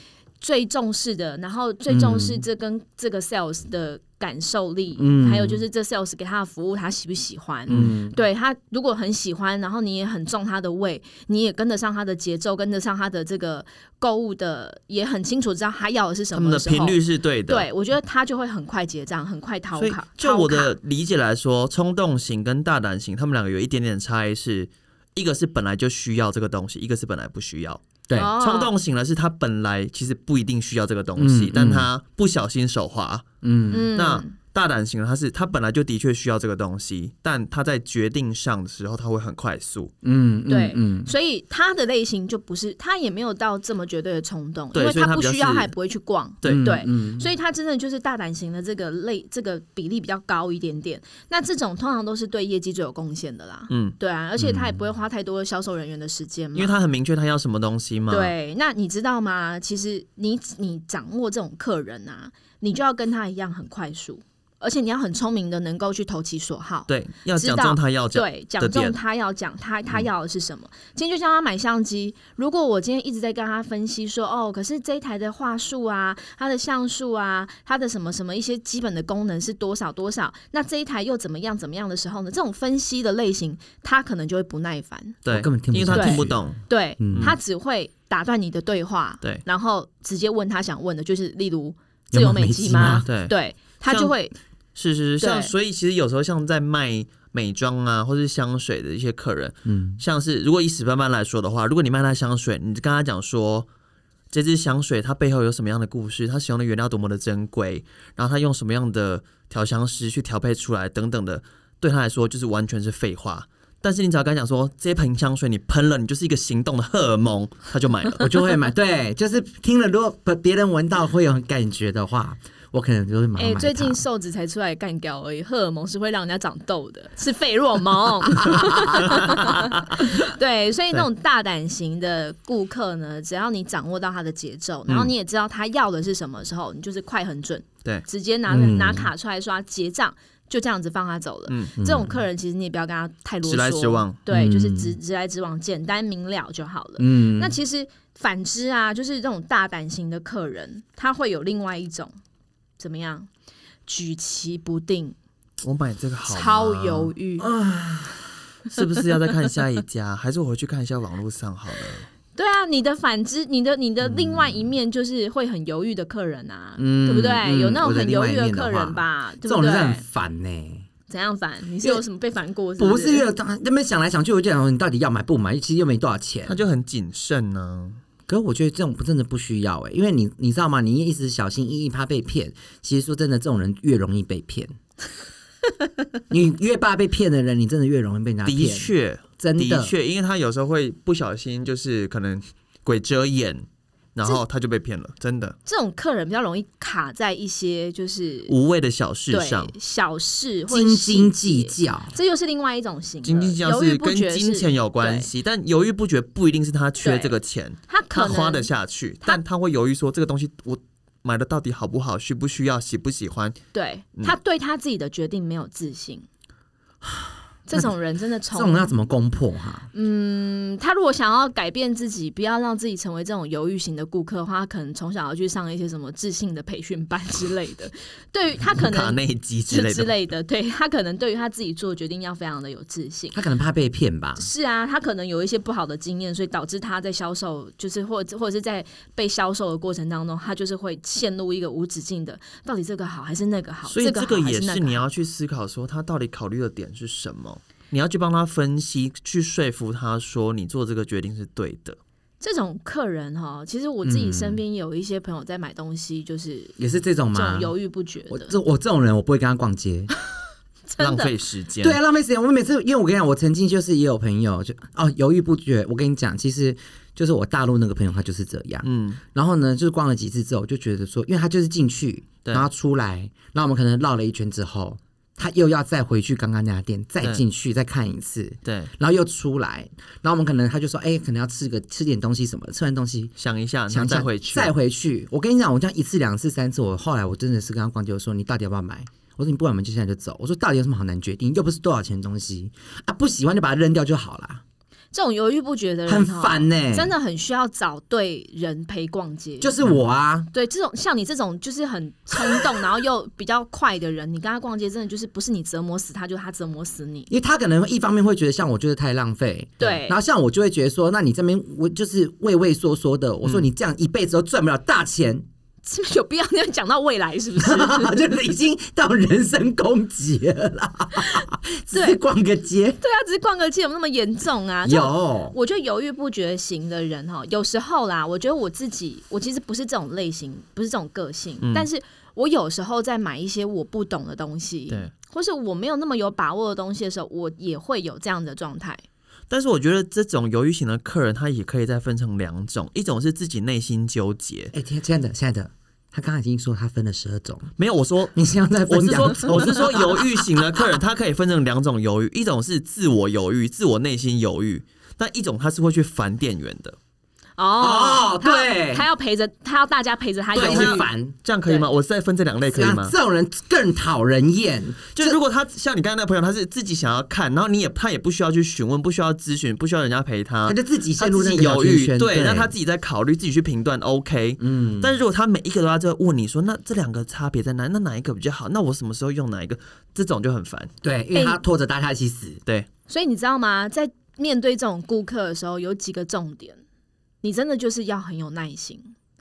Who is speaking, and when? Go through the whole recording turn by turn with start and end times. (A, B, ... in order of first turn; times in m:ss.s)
0:00.4-0:20.8 A
0:01.9-0:02.4 B
0:05.0-0:05.6 B
0:07.7-0:07.9 C
0:07.7-0:08.2 B
0:16.3-0:17.7 C
0:19.8-0:27.8 C
0:28.2-0:28.7 A
0:28.4-0:33.3 C
0:31.2-0:31.9 B
0:33.4-0:33.9 B
0:33.7-0:34.4 A
0:33.9-0:39.9 C
0:40.0-0:41.1 B
0:40.5-0:56.8 A
0:44.7-0:45.7 C
0:46.5-0:47.3 B
0:53.7-0:54.0 C
0:54.4-0:54.8 B
0:56.6-0:58.3 C
0:58.1-1:25.2 A
1:06.9-1:09.0 C
1:25.2-1:26.6 C
1:25.3-1:26.5 B
1:25.9-1:34.3 A
1:27.0-1:27.4 B
1:32.1-1:33.1 B
1:32.9-1:33.3 C
1:33.9-1:34.2 C
1:34.8-1:43.7 C
1:35.2-1:35.5 A
1:39.7-1:40.0 B
1:44.3-1:58.3 C
1:58.2-2:04.0 B
2:03.4-2:32.1 A
2:08.4-2:09.2 B
2:09.1-2:09.5 C
2:14.9-2:15.1 C
2:18.5-2:19.1 B
2:21.5-2:21.8 C
2:21.8-2:22.2 B
2:23.4-2:24.2 C
2:24.3-2:25.0 B
2:27.0-2:27.6 B
2:32.8-2:33.3 A
2:33.9-2:35.2 A
2:35.6-2:37.1 C
2:36.3-2:37.5 A
2:37.4-2:38.3 B
2:38.7-2:42.1 C
2:42.4-2:50.0 A
2:44.0-2:44.7 B
2:46.8-2:50.9 B
2:51.1-2:53.3 A
2:52.8-2:56.6 B
2:56.5-2:58.0 C
2:58.3-3:04.7 B
3:06.3-3:09.9 B
3:08.4-3:15.6 C
3:15.7-3:18.5 A
3:18.5-3:19.7 C
3:19.3-3:25.3 A
3:20.7-3:22.2 B
3:23.2-3:33.6 C
3:27.0-3:27.4 A
3:27.9-3:28.7 A
3:33.7-3:36.3 A
3:37.0-3:37.9 B
3:37.7-3:38.9 A
3:38.5-3:39.9 B
3:39.9-3:53.4 A
3:48.7-3:50.1 C
3:53.3-3:54.5 B
3:54.4-4:05.1 A
4:03.9-4:12.0 C
4:12.4-4:16.8 A
4:14.0-4:14.6 B
4:16.8-4:17.7 B
4:17.3-4:18.5 A
4:18.3-4:20.1 B
4:20.9-4:21.3 A
4:21.0-4:22.0 C
4:21.8-4:43.3 B
4:28.8-4:29.2 C
4:38.6-4:38.9 C
4:43.4-4:44.7 C
4:43.9-4:54.6 B
4:55.1-4:59.8 A
4:56.1-4:57.1 B
4:59.6-5:00.5 B
5:00.5-5:07.3 A
5:07.3-5:15.5 B
5:09.8-5:10.2 A
5:15.8-5:18.4 A
5:17.6-5:23.0 B
5:21.2-5:22.2 A
5:23.0-5:39.0 A
5:24.8-5:25.6 B
5:31.6-5:31.9 C
5:39.5-5:44.7 C
5:44.7-5:47.7 B
5:47.8-5:48.3 C
5:48.3-5:50.8 B
5:48.9-5:57.0 C
5:57.6-6:01.1 A
5:57.8-5:59.0 B
6:00.5-6:01.4 B
6:00.5-6:03.1 C
6:02.7-6:05.4 B
6:05.2-6:20.9 C
6:10.7-6:12.7 B
6:14.6-6:15.2 B
6:21.0-6:22.6 B
6:21.3-6:21.6 A
6:23.1-6:26.8 A
6:27.4-6:29.1 A